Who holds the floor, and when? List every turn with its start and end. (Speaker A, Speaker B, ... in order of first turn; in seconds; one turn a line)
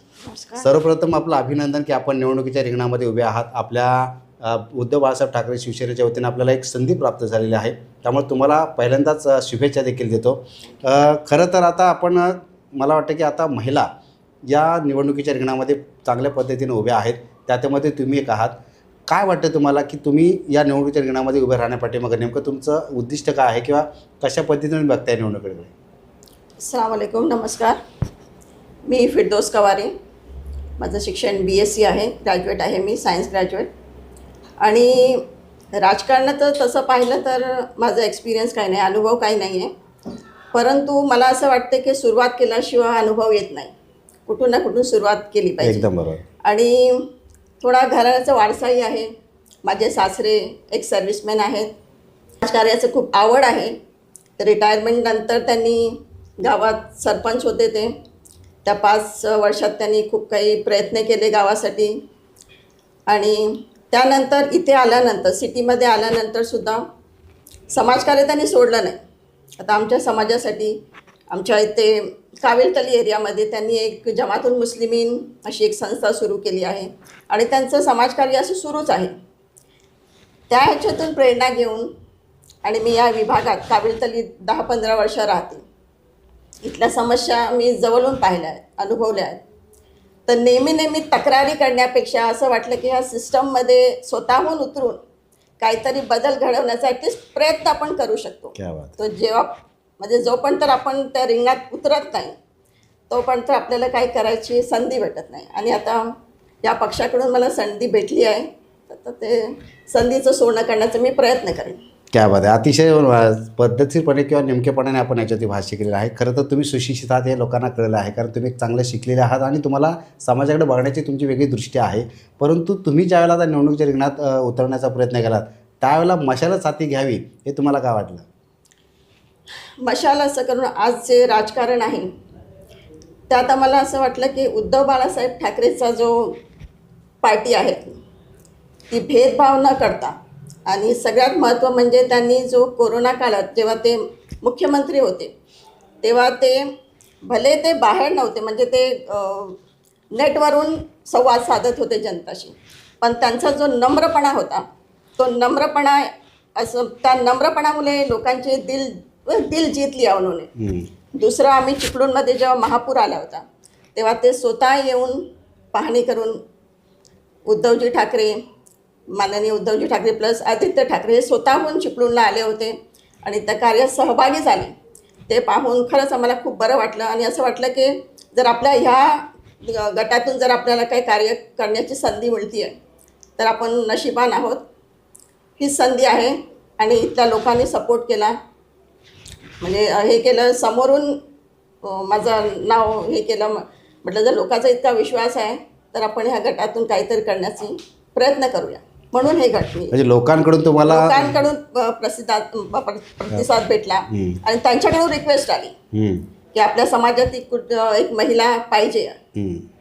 Speaker A: 0.2-0.7
Speaker B: 0.6-13.9
Speaker B: 14.4-18.5
Speaker B: 19.1-25.7
Speaker A: 26.6-27.8
Speaker A: 28.9-29.9
Speaker A: 30.8-33.7
Speaker A: 34.6-35.2
Speaker A: 35.7-39.7
Speaker A: 40.5-43.7
Speaker A: 44.3-45.9
Speaker B: 45.6-46.2
Speaker A: 46.4-47.1
Speaker A: 47.6-49.1
Speaker A: 49.6-51.7
Speaker A: 52.4-53.7
Speaker A: 54.4-57.9
Speaker A: 58.6-62.0
Speaker A: 63.1-66.8
Speaker A: 67.7-69.0
Speaker A: 69.6-70.7
Speaker A: 71.3-79.1
Speaker A: 80.5-81.9
Speaker A: 82.6-85.6
Speaker A: 86.6-89.4
Speaker A: 90.3-95.0
Speaker A: 95.6-102.3
Speaker B: 98.6-98.9
Speaker A: 103.1-111.8
Speaker B: 112.1-128.2
Speaker A: 129.8-132.1
Speaker A: 133.3-136.4
Speaker A: 137.2-138.0
Speaker A: 138.9-140.1
Speaker A: 140.7-145.3
Speaker A: 146.0-146.7
Speaker A: 147.2-149.6
Speaker A: 150.1-154.6
Speaker A: 155.2-160.5
Speaker B: 160.6-160.9
Speaker A: 161.1-163.4
Speaker A: 163.9-166.4
Speaker A: 167.5-168.4
Speaker A: 169.2-174.7
Speaker A: 175.3-182.7
Speaker A: 183.4-184.6
Speaker A: 185.6-188.3
Speaker A: 189.6-191.2
Speaker A: 191.8-199.9
Speaker B: 199.9-201.4
Speaker A: 200.8-205.7
Speaker B: 204.1-204.4
Speaker B: 205.9-206.2
Speaker A: 206.5-209.2
Speaker B: 209.3-209.7